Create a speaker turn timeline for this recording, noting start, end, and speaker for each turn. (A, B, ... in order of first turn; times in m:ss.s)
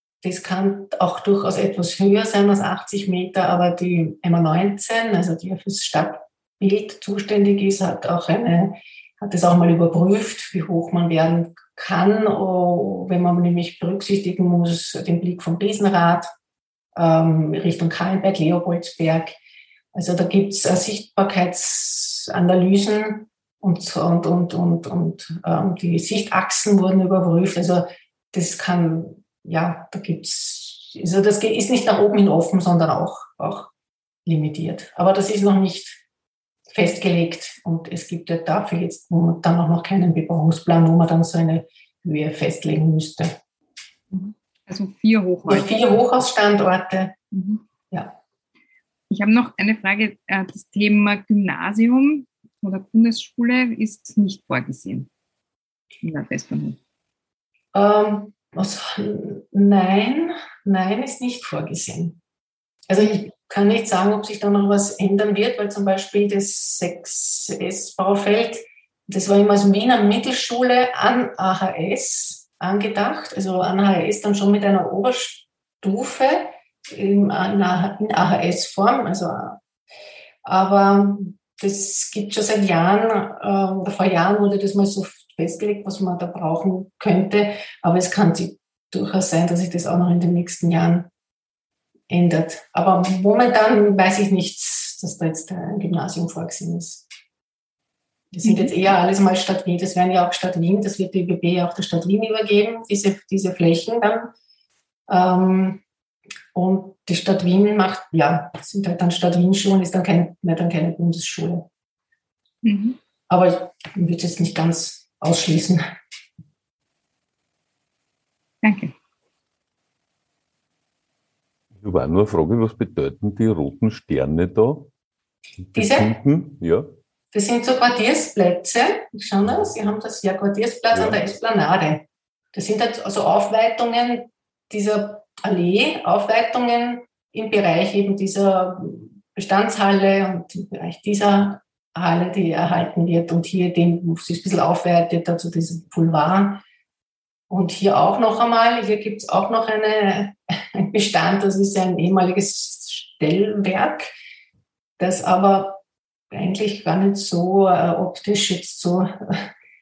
0:00.2-0:16.3 A
0:17.0-0:19.4 A
0:19.9-0:33.7 A
0:34.3-0:36.0 A
0:36.7-0:43.4 A
0:44.1-0:46.0 B
0:45.5-0:47.2 A
0:47.3-0:47.6 B
0:47.9-0:48.2 A
0:49.1-0:55.1 B
0:56.0-0:56.8 B
0:57.7-1:02.2 A
1:02.9-1:19.6 A
1:20.4-1:31.1 A
1:32.1-1:37.0 A
1:38.3-1:44.3 A
1:38.4-1:38.7 B
1:45.1-1:45.8 A
1:46.5-1:51.7 A
1:52.6-1:53.0 B
1:53.3-1:55.8 A
1:58.6-1:58.9 B
2:01.8-2:04.9 C
2:05.6-2:06.9 C
2:05.8-2:06.2 A
2:07.3-2:26.6 A
2:09.4-2:09.7 C
2:27.5-2:34.1 A
2:35.0-2:35.8 A
2:36.3-2:39.5 A